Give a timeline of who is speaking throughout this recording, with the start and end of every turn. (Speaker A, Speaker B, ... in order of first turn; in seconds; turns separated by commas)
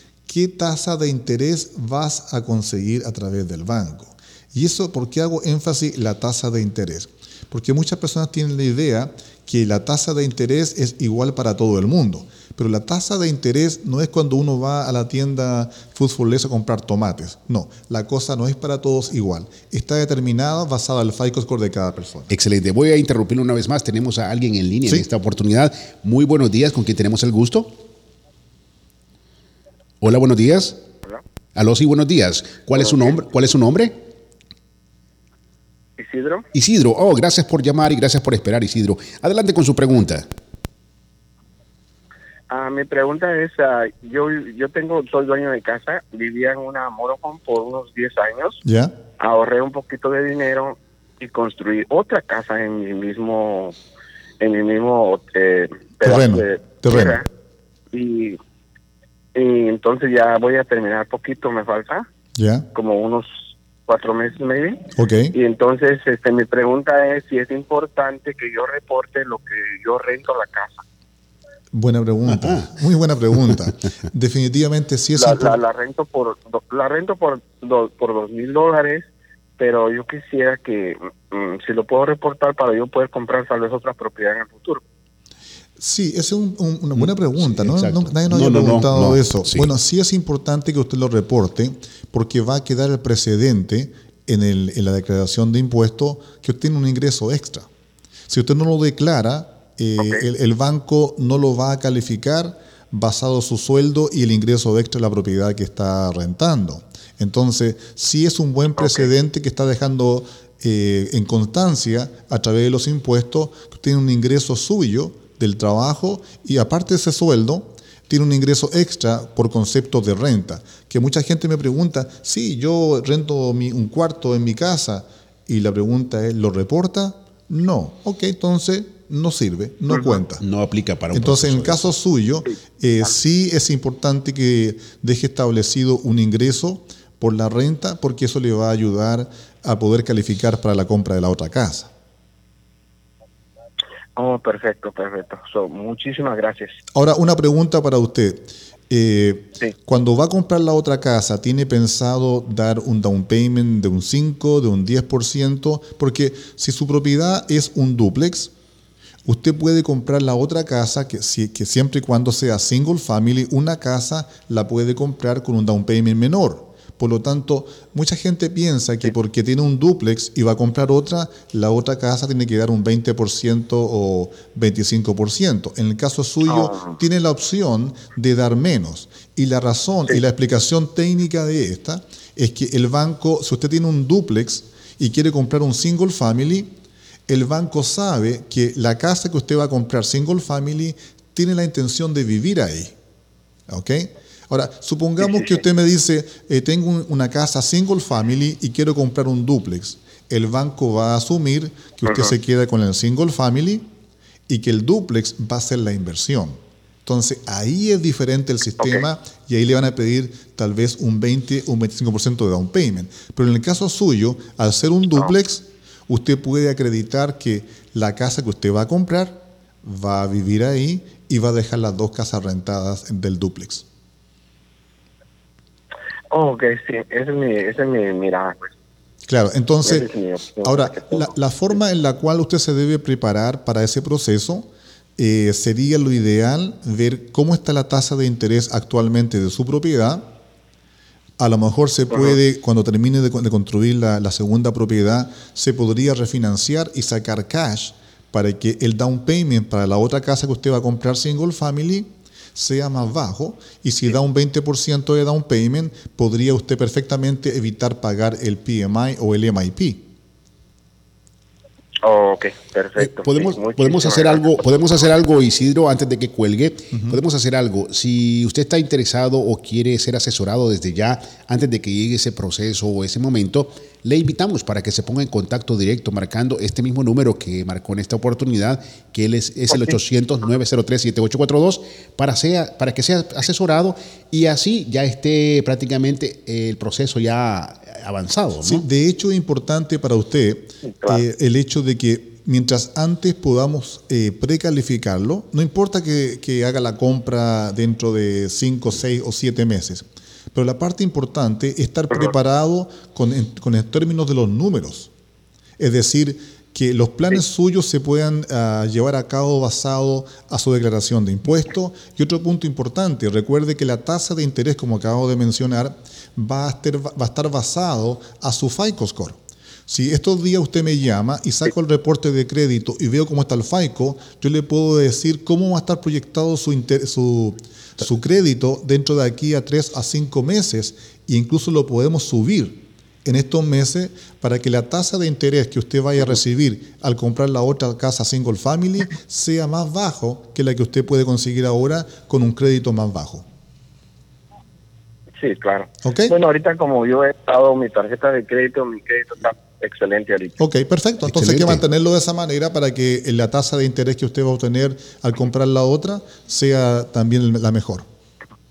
Speaker A: 0.3-22.3, Speaker B: 22.3-27.8, Speaker B: 30.0-30.8, Speaker B: 31.6-34.0, Speaker C: 32.8-33.2, Speaker C: 36.0-36.5, Speaker B: 36.5-40.3, Speaker C: 42.5-48.6, Speaker A: 48.6-49.0, Speaker C: 49.2-53.8, Speaker C: 54.4-57.3, Speaker A: 56.0-57.2, Speaker C: 57.9-58.4, Speaker C: 59.4-62.1, Speaker A: 62.4-62.7, Speaker C: 62.7-70.8, Speaker A: 64.9-65.3, Speaker A: 71.7-75.6, Speaker B: 72.3-72.7, Speaker C: 75.2-84.8, Speaker A: 85.8-97.7, Speaker B: 87.0-89.7, Speaker A: 98.3-130.4, Speaker B: 130.4-131.8, Speaker A: 131.1-141.9, Speaker C: 144.2-146.8, Speaker A: 146.9-158.5, Speaker A: 159.2-186.7, Speaker C: 176.5-176.9, Speaker A: 187.3-192.9, Speaker A: 193.7-203.9, Speaker A: 204.5-223.8, Speaker C: 226.3-228.7, Speaker A: 229.3-230.1, Speaker C: 229.8-231.2, Speaker A: 230.6-240.3, Speaker A: 241.4-260.1, Speaker C: 262.0-264.6, Speaker B: 263.0-288.9, Speaker A: 288.6-305.1, Speaker A: 305.8-343.4, Speaker C: 345.4-350.6, Speaker A: 346.0-346.3, Speaker A: 350.6-358.1, Speaker B: 351.3-351.8